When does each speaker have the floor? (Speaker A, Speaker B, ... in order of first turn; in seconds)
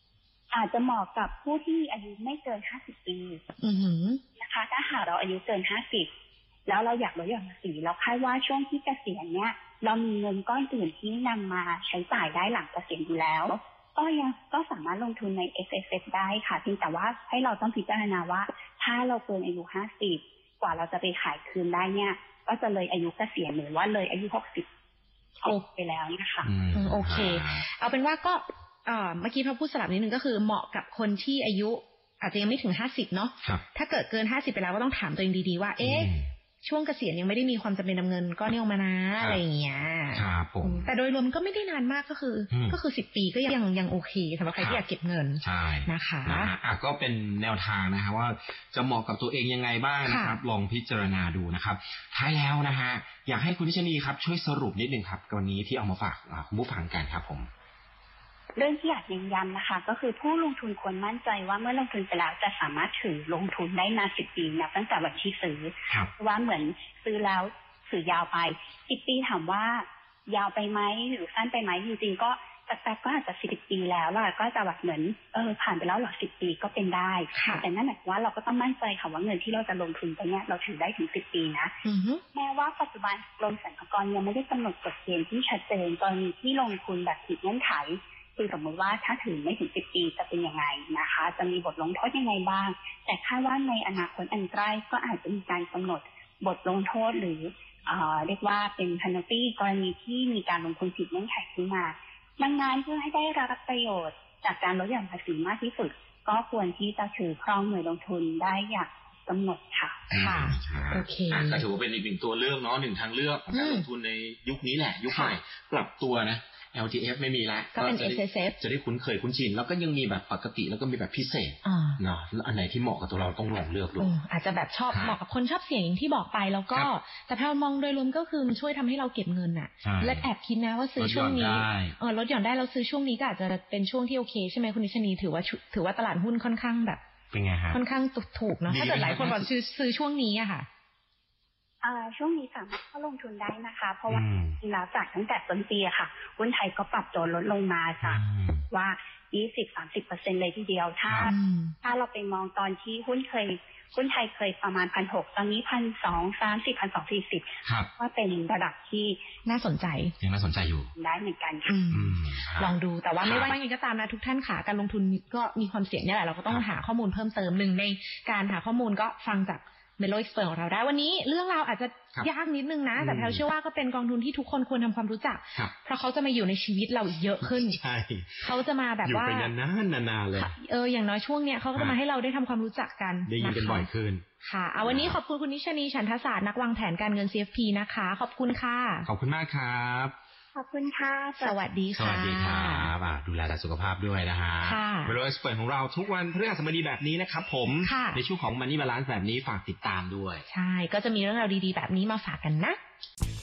Speaker A: 0.5-3.4, 4.4-6.1, 6.7-24.7, 25.4-26.5, 58.5-81.8, 82.3-110.0, 141.8-159.2, 160.9-161.7, 190.5-191.6
Speaker B: 3.6-4.2, 26.7-46.5, 50.0-50.4, 77.3-77.6, 81.8-82.2, 110.1-111.6, 113.5-113.9, 115.1-115.4, 117.7-118.6, 121.6-122.0, 124.0-137.0, 137.7-140.7, 151.2-151.8, 159.4-160.1, 161.7-177.8, 178.4-179.5, 180.3-183.9, 184.4-189.1, 191.4-192.9, 194.6-195.2, 197.8-198.2, 200.5-202.8
Speaker C: 26.4-27.6, 35.8-36.3, 40.1-40.9, 42.5-42.8, 44.6-44.8, 45.4-57.5, 110.1-124.1, 124.9-125.2, 129.8-130.3, 131.0-132.0, 137.3-137.8, 138.7-139.5, 144.1-144.6, 148.0-148.7, 160.2-160.9, 161.9-163.5, 173.0-173.4, 177.4-180.5, 183.2-184.2, 184.8-185.2, 189.0-190.1, 191.9-200.4